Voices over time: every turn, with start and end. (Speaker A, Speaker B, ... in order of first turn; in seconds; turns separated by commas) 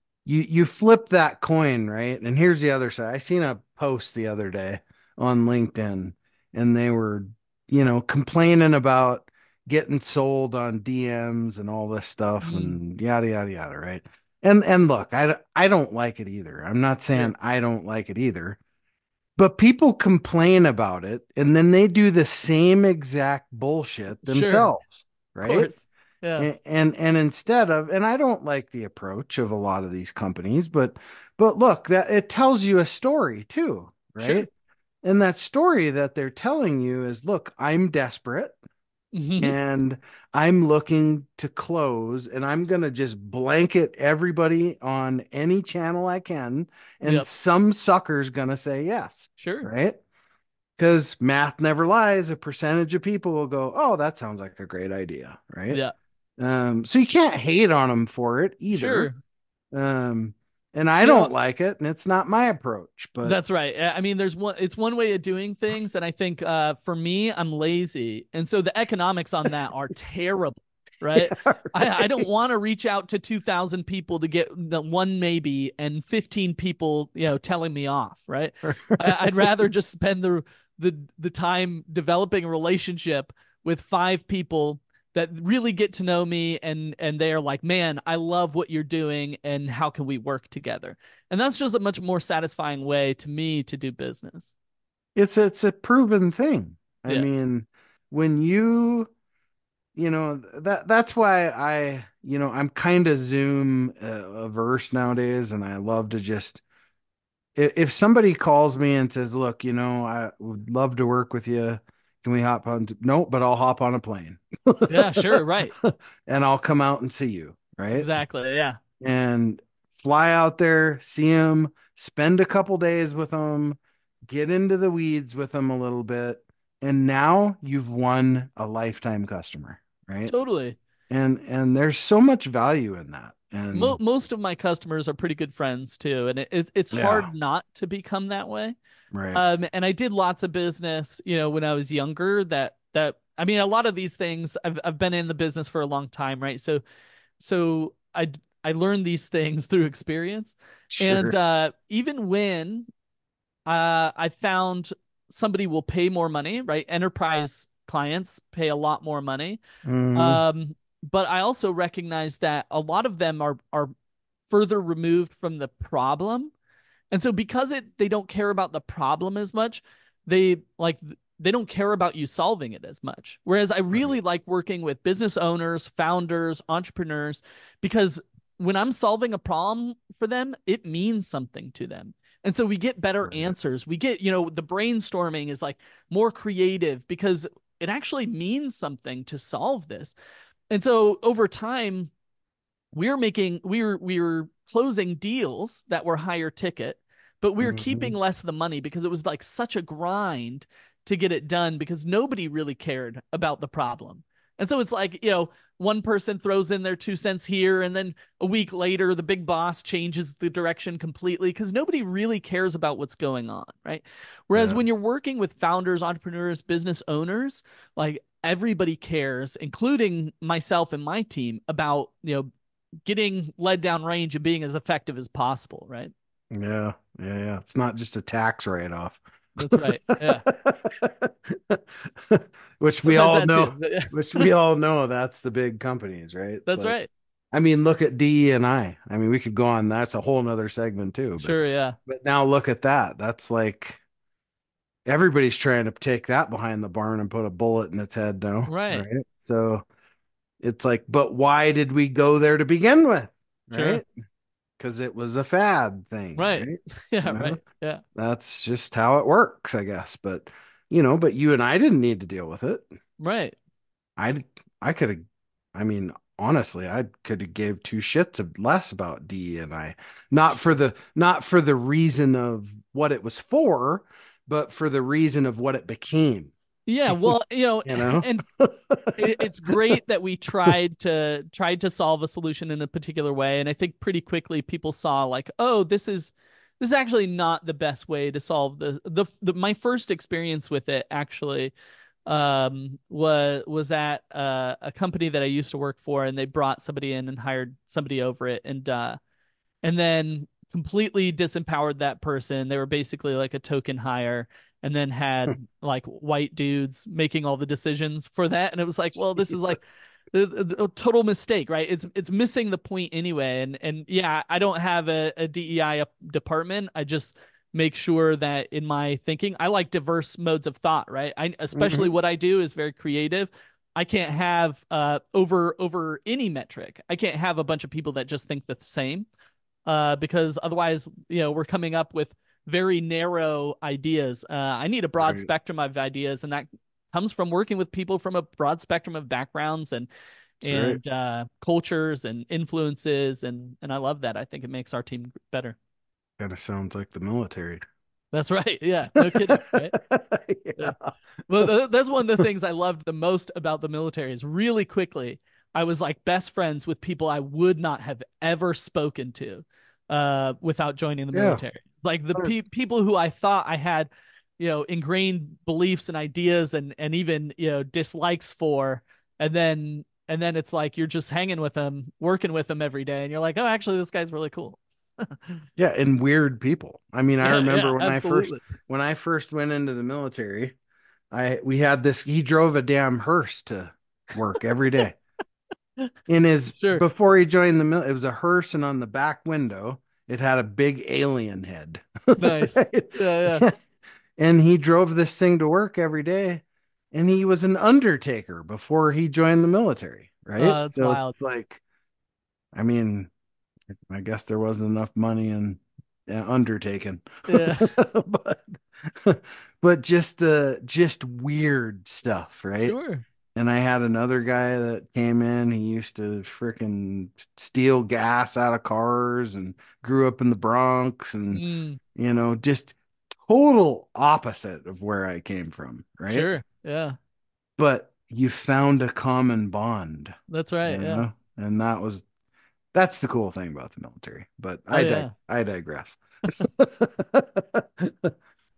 Speaker A: 0.2-18.6, Speaker B: 12.4-12.8, Speaker A: 19.4-25.7, Speaker B: 24.2-24.7, Speaker B: 25.4-26.5, Speaker A: 26.4-34.5, Speaker B: 34.2-34.5, Speaker A: 35.0-38.6, Speaker B: 39.1-39.5, Speaker A: 39.4-50.0, Speaker B: 49.4-49.7, Speaker A: 50.8-55.8, Speaker A: 56.4-59.1, Speaker B: 58.7-59.2, Speaker A: 59.7-63.4, Speaker B: 61.0-61.3, Speaker B: 63.2-94.5, Speaker A: 71.2-72.3, Speaker A: 78.7-79.5, Speaker A: 95.2-99.1, Speaker A: 99.9-106.6, Speaker A: 107.5-118.1, Speaker B: 114.9-115.7, Speaker B: 117.9-118.8, Speaker A: 119.0-130.3, Speaker B: 130.3-130.8, Speaker A: 131.1-134.0, Speaker B: 133.7-138.8, Speaker A: 136.9-137.3, Speaker A: 139.1-139.4, Speaker B: 139.3-146.8, Speaker B: 147.4-152.9, Speaker A: 150.9-151.3, Speaker B: 153.7-159.6, Speaker A: 159.8-160.4, Speaker B: 160.1-163.9, Speaker B: 164.5-166.5, Speaker B: 167.1-190.1, Speaker A: 173.9-174.2, Speaker A: 183.2-183.6, Speaker B: 190.7-192.1, Speaker B: 192.9-222.5, Speaker A: 197.6-198.1, Speaker A: 214.5-214.8, Speaker B: 223.1-226.1, Speaker A: 226.5-236.9, Speaker B: 229.6-230.4, Speaker B: 233.0-234.5, Speaker B: 236.7-237.1, Speaker A: 237.5-244.0, Speaker B: 241.4-242.0, Speaker A: 245.1-249.8, Speaker B: 248.7-249.1, Speaker A: 250.6-254.1, Speaker B: 253.7-254.0, Speaker A: 254.8-257.6, Speaker B: 256.4-258.0, Speaker A: 258.1-262.9, Speaker B: 263.2-263.6, Speaker A: 264.2-276.5, Speaker B: 276.9-278.4, Speaker A: 277.1-280.0, Speaker B: 279.1-291.7, Speaker B: 292.2-299.2, Speaker B: 299.8-329.3, Speaker A: 309.1-309.8, Speaker A: 321.7-322.1, Speaker B: 329.9-340.1, Speaker A: 335.2-335.5, Speaker A: 340.6-341.0, Speaker B: 340.6-345.8, Speaker A: 346.4-347.8, Speaker B: 348.3-349.9, Speaker A: 349.1-351.1, Speaker B: 351.5-375.6, Speaker A: 361.3-361.6, Speaker A: 375.8-380.7, Speaker B: 377.4-378.6, Speaker A: 381.3-385.2, Speaker A: 386.3-393.7, Speaker B: 386.8-387.0, Speaker B: 392.4-393.6, Speaker A: 394.4-401.8, Speaker B: 400.6-401.3, Speaker A: 402.7-403.3, Speaker A: 404.1-412.9, Speaker B: 407.5-407.9, Speaker B: 412.8-413.2, Speaker A: 413.5-421.6, Speaker B: 421.5-422.0, Speaker A: 422.1-426.5, Speaker B: 426.3-427.2, Speaker A: 427.8-432.3, Speaker B: 430.5-431.2, Speaker A: 432.9-438.3, Speaker B: 434.9-435.3